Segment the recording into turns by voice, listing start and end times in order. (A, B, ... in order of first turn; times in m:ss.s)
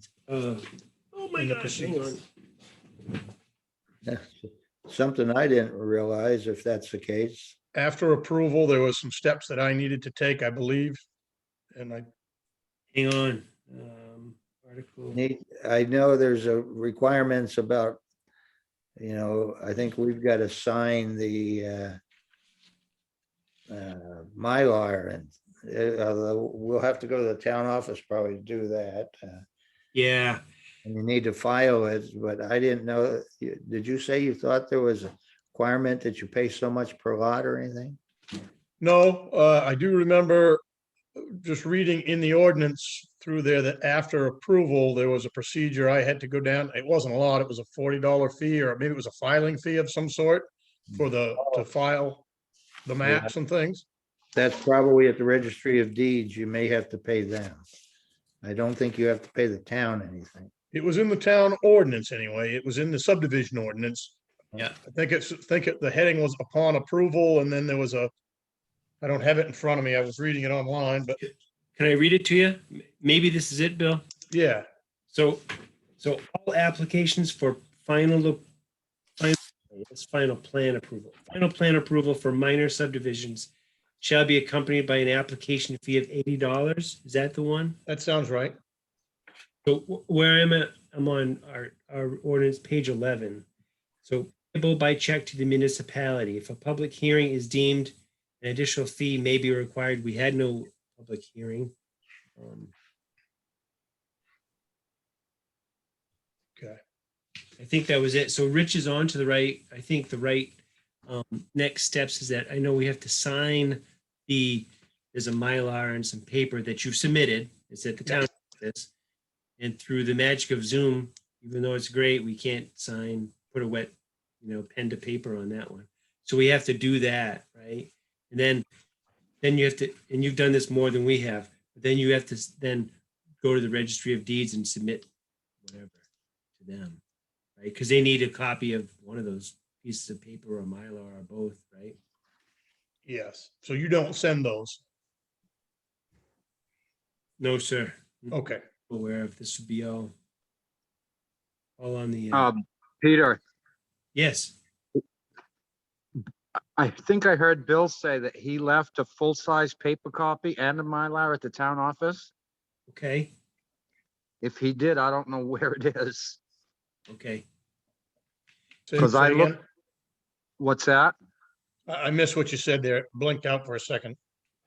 0:00.3-0:02.2 A
0:01.4-0:02.1 B
0:04.0-0:07.6 C
0:07.7-0:11.0 B
0:11.7-0:12.1 B
0:12.9-0:15.2 A
0:15.1-0:18.0 C
0:19.0-0:22.0 C
0:23.7-0:29.4 C
0:29.9-0:30.4 A
0:30.8-0:38.0 C
0:38.8-0:40.6 B
0:41.2-0:52.2 B
0:50.9-0:51.6 C
0:52.8-0:53.8 B
0:53.0-0:53.3 C
0:54.3-0:57.6 C
0:58.4-1:00.5 C
1:00.7-1:04.2 B
1:04.8-1:08.1 B
1:09.0-1:11.2 B
1:11.8-1:14.0 A
1:14.3-1:14.6 B
1:15.1-1:15.4 A
1:16.0-1:18.4 A
1:19.2-1:23.5 A
1:24.0-1:27.8 A
1:27.9-1:28.5 B
1:29.6-1:33.4 A
1:34.0-1:41.7 A
1:42.4-1:42.7 A
1:47.6-1:50.5 A
1:51.1-1:58.9 A
1:59.6-2:08.6 A
2:09.4-2:15.1 A
2:15.6-2:16.0 A
2:16.6-2:17.0 A
2:17.6-2:22.0 A
2:23.0-2:24.8 B
2:27.4-2:28.4 A
2:28.3-2:28.6 B
2:28.9-2:30.1 A
2:31.8-2:32.5 A
2:32.3-2:33.4 D
2:34.1-2:34.5 A
2:36.8-2:42.3 D
2:42.9-2:43.3 A
2:44.4-2:46.4 D
2:47.1-2:47.4 A
2:48.9-2:49.6 B
2:49.0-2:49.6 D
2:50.6-2:51.1 D
2:51.9-2:54.2 B